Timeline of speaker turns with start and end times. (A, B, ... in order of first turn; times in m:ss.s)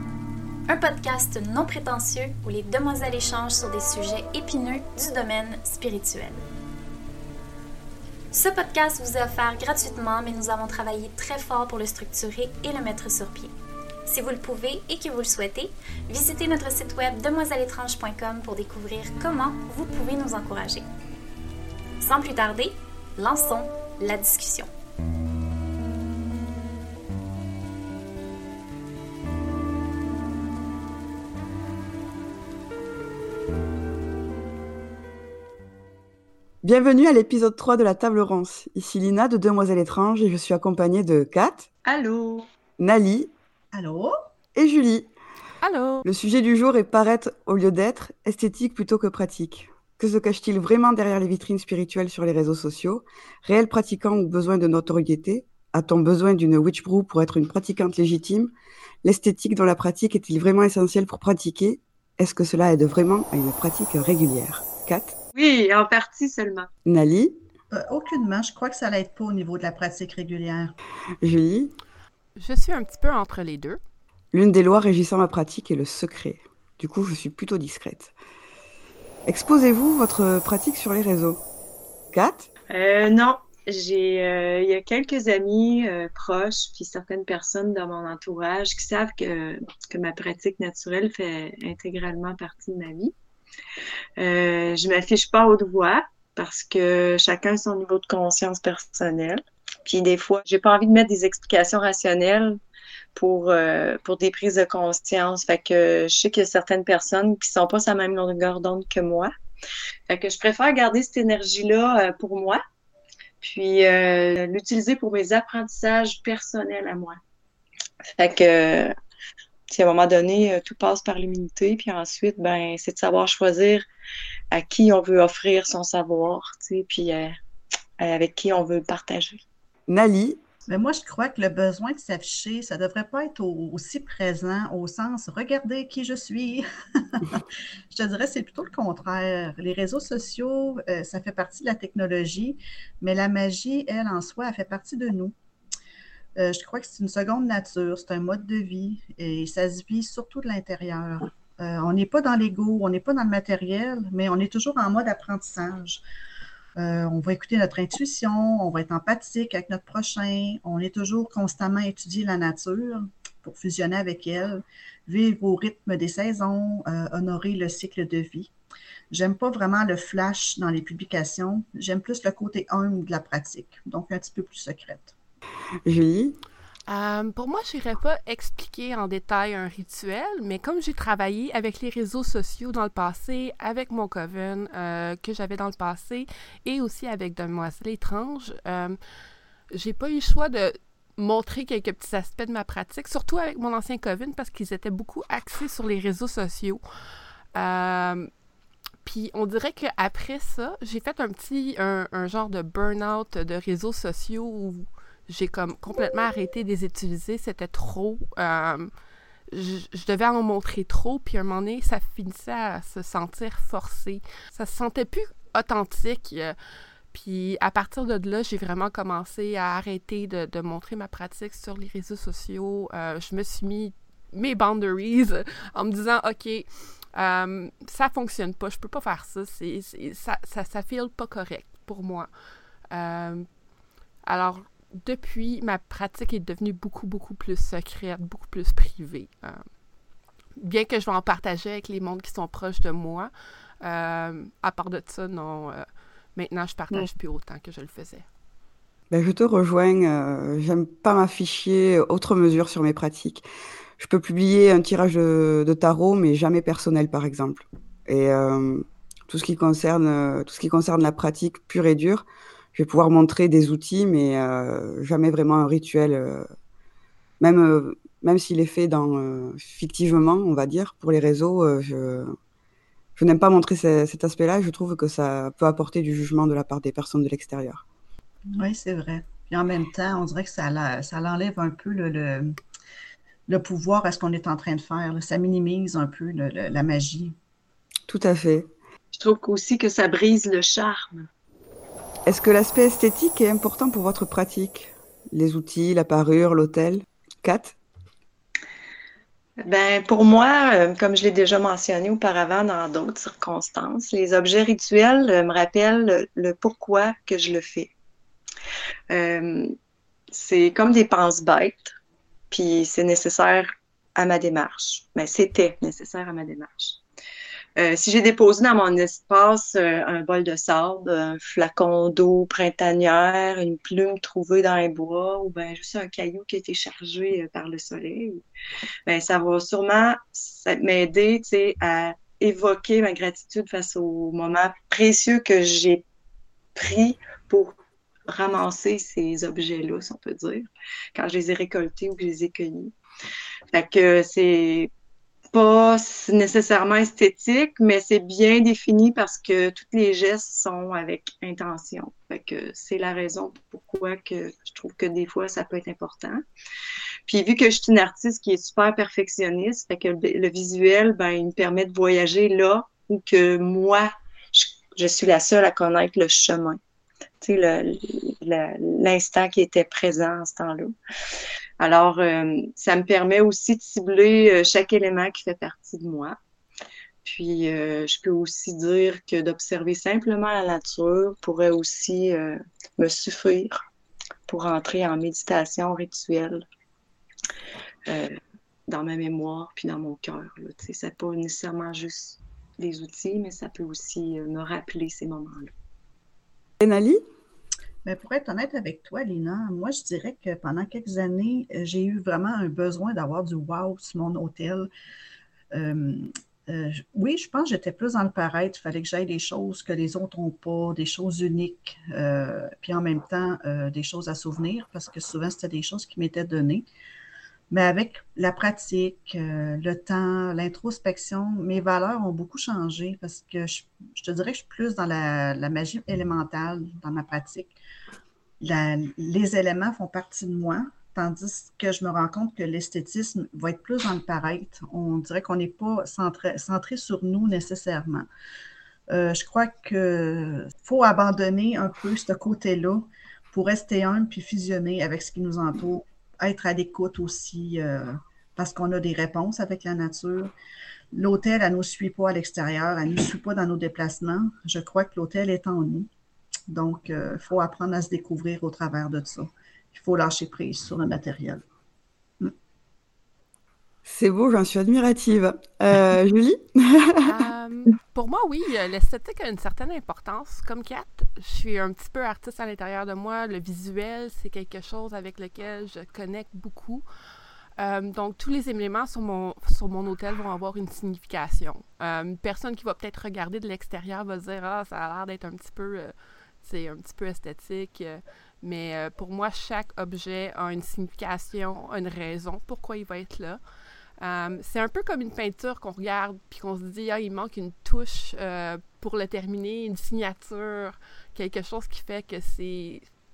0:00.7-0:06.4 A
0:08.3-0:13.5 A
0:14.0-0:20.9 A
0:22.0-0:24.7 A
0:36.6-0:41.7 B
0:41.8-0:42.5 C
0:42.8-0:43.3 B
0:43.7-0:44.1 D
0:44.5-0:45.1 B
0:45.6-0:46.0 E
0:46.0-0:58.5 B
0:59.0-1:05.2 B
1:05.3-1:06.7 C
1:06.8-1:07.4 B
1:07.7-1:10.7 D
1:11.2-1:11.7 B
1:12.4-1:13.8 E
1:14.3-1:18.1 B
1:19.2-1:21.4 B
1:22.1-1:22.5 B
1:22.7-1:33.1 C
1:34.2-1:42.6 C
1:43.1-1:49.3 C
1:50.1-1:52.6 C
1:53.4-1:57.2 C
1:58.2-1:58.9 C
1:59.7-2:03.8 C
2:04.5-2:07.4 C
2:08.0-2:09.4 C
2:09.9-2:10.4 B
2:10.7-2:25.3 D
2:26.4-2:36.0 D
2:36.8-2:48.5 D
2:49.1-2:55.1 D
2:55.8-2:56.4 B
2:56.9-3:09.0 E
3:09.7-3:16.8 E
3:17.5-3:18.3 E
3:19.0-3:28.9 E
3:29.5-3:36.6 E
3:37.1-3:52.3 E
3:52.9-3:53.5 E
3:54.2-3:59.6 E
4:00.6-4:03.3 E
4:03.8-4:08.2 E
4:09.1-4:13.4 B
4:14.0-4:26.5 B
4:27.4-4:32.3 B
4:33.2-4:37.8 B
4:38.5-4:42.5 D
4:43.5-4:47.3 D
4:48.1-4:48.7 B
4:49.1-4:51.3 C
4:52.2-4:57.8 B
4:59.6-5:07.9 C
5:09.1-5:09.7 C
5:10.3-5:12.0 C
5:12.5-5:17.0 C
5:17.8-5:28.4 C
5:29.1-5:36.0 C
5:36.7-5:37.7 C
5:38.3-5:42.9 C
5:43.7-5:44.9 C
5:45.5-5:56.4 C
5:57.3-6:06.8 C
6:07.4-6:10.9 C
6:11.8-6:16.4 C
6:17.2-6:23.8 C
6:24.5-6:26.6 C
6:28.1-6:35.7 C
6:36.8-6:37.2 B
6:38.0-6:44.9 D
6:45.7-6:56.8 D
6:57.7-7:07.7 D
7:08.6-7:18.3 D
7:19.1-7:30.5 D
7:31.1-7:36.1 D
7:36.7-7:41.6 D
7:44.0-7:47.4 B
7:47.2-7:57.0 E
7:57.8-8:13.6 E
8:14.2-8:23.1 E